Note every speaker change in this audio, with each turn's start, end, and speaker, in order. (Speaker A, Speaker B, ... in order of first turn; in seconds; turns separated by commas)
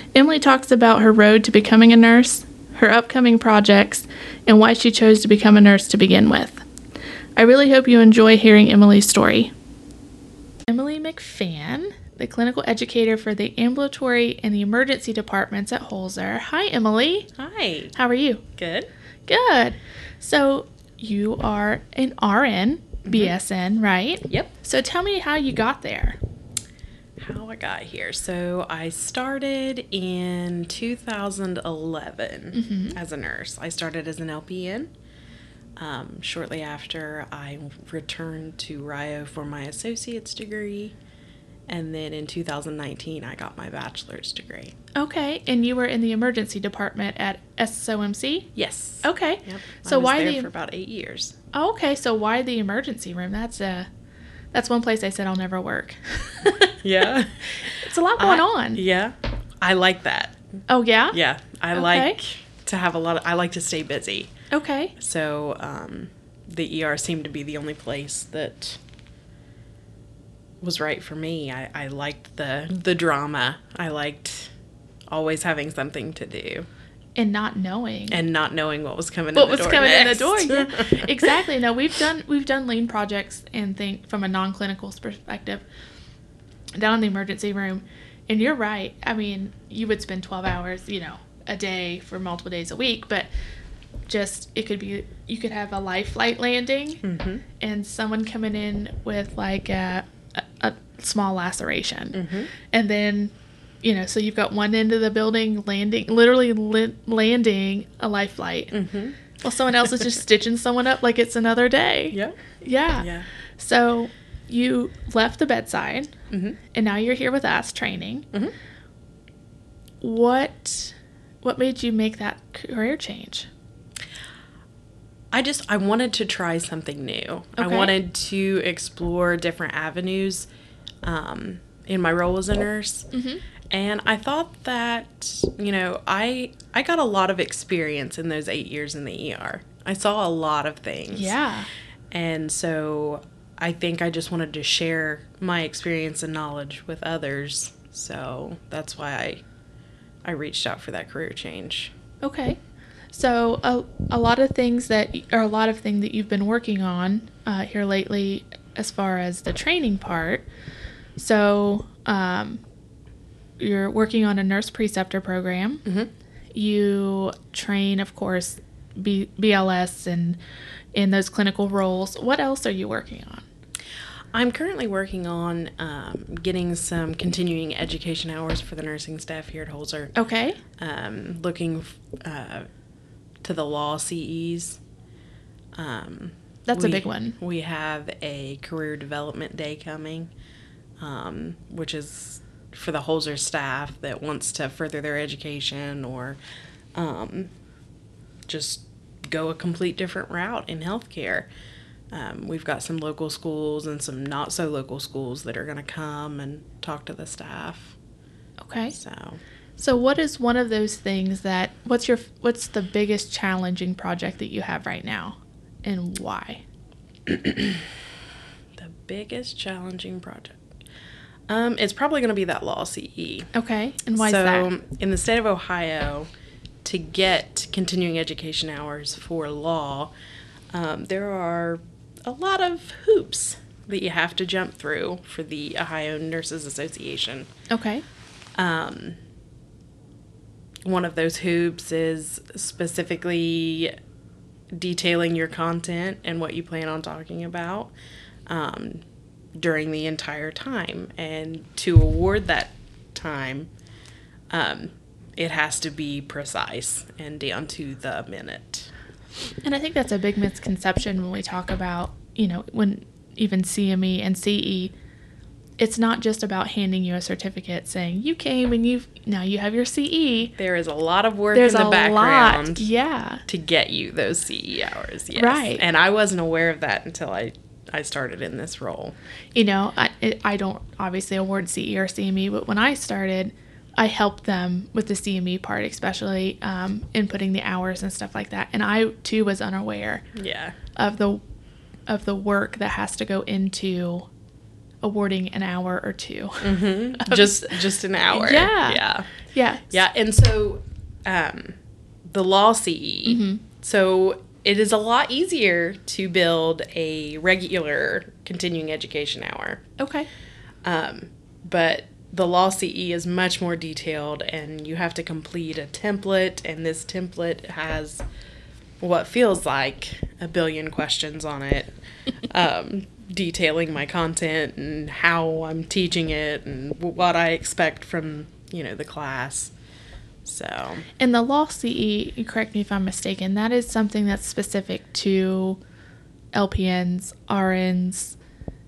Speaker A: 0.1-6.6, Speaker A: 7.4-9.5, Speaker A: 10.7-17.3, Speaker B: 17.4-18.0, Speaker A: 17.9-18.4, Speaker B: 18.6-18.9, Speaker A: 19.3-26.2, Speaker B: 23.1-23.3, Speaker B: 27.2-34.9, Speaker A: 32.5-33.0, Speaker B: 35.8-41.0, Speaker B: 41.7-44.8, Speaker A: 45.0-48.5, Speaker B: 48.5-51.4, Speaker A: 49.0-50.5, Speaker A: 51.5-53.9, Speaker A: 54.5-56.8, Speaker B: 56.8-57.5, Speaker A: 57.6-58.8, Speaker B: 58.2-60.4, Speaker A: 60.7-61.2, Speaker B: 61.1-64.3, Speaker A: 61.7-62.2, Speaker A: 64.5-64.9, Speaker B: 65.0-68.8, Speaker B: 70.6-74.5, Speaker B: 75.1-76.7, Speaker A: 77.2-78.2, Speaker B: 78.1-81.3, Speaker A: 79.3-85.6, Speaker A: 86.8-93.3, Speaker A: 94.1-97.0, Speaker B: 97.0-97.4, Speaker A: 97.6-108.8, Speaker B: 102.1-102.5, Speaker B: 108.7-109.2, Speaker A: 109.4-116.1, Speaker B: 113.0-113.3, Speaker B: 116.3-116.6, Speaker A: 116.7-118.3, Speaker A: 120.0-123.5, Speaker B: 125.3-130.5, Speaker A: 127.6-127.9, Speaker B: 131.0-133.1, Speaker A: 133.1-133.4, Speaker B: 133.7-141.3, Speaker A: 141.1-141.7, Speaker B: 142.1-149.4, Speaker B: 150.2-151.9, Speaker A: 152.2-152.6, Speaker A: 153.1-160.5, Speaker A: 161.2-162.6, Speaker A: 163.6-165.8, Speaker B: 165.8-166.1, Speaker A: 166.5-170.4, Speaker A: 170.9-173.4, Speaker B: 174.3-180.1, Speaker A: 180.2-180.6, Speaker B: 180.8-182.7, Speaker B: 183.4-184.8, Speaker B: 185.8-190.3, Speaker A: 186.7-187.4, Speaker B: 191.0-196.4, Speaker B: 196.9-197.5, Speaker B: 198.5-201.5, Speaker B: 202.1-208.0, Speaker A: 208.6-209.0, Speaker B: 208.9-209.4, Speaker A: 209.8-216.6, Speaker B: 217.3-217.8, Speaker B: 218.8-220.6, Speaker B: 221.5-223.5, Speaker A: 223.5-224.7, Speaker B: 224.2-226.3, Speaker B: 226.8-230.1, Speaker B: 230.7-237.5, Speaker A: 237.7-238.0, Speaker B: 238.6-239.2, Speaker B: 240.8-243.9, Speaker B: 244.7-247.9, Speaker B: 248.5-249.0, Speaker B: 249.6-253.7, Speaker B: 254.5-258.9, Speaker A: 259.6-264.9, Speaker A: 265.8-270.5, Speaker B: 270.6-272.9, Speaker A: 271.5-273.4, Speaker B: 273.5-279.1, Speaker A: 275.3-275.8, Speaker A: 279.6-290.2, Speaker B: 290.4-290.8, Speaker A: 291.0-291.4, Speaker A: 292.1-294.3, Speaker A: 295.0-297.8, Speaker B: 296.6-299.3, Speaker A: 298.3-300.0, Speaker B: 299.9-301.8, Speaker B: 302.3-309.8, Speaker A: 303.3-303.6, Speaker A: 310.0-310.3, Speaker B: 310.8-318.2, Speaker B: 319.0-321.9, Speaker B: 322.5-329.7, Speaker B: 330.4-331.0, Speaker A: 331.2-335.8, Speaker A: 336.5-338.4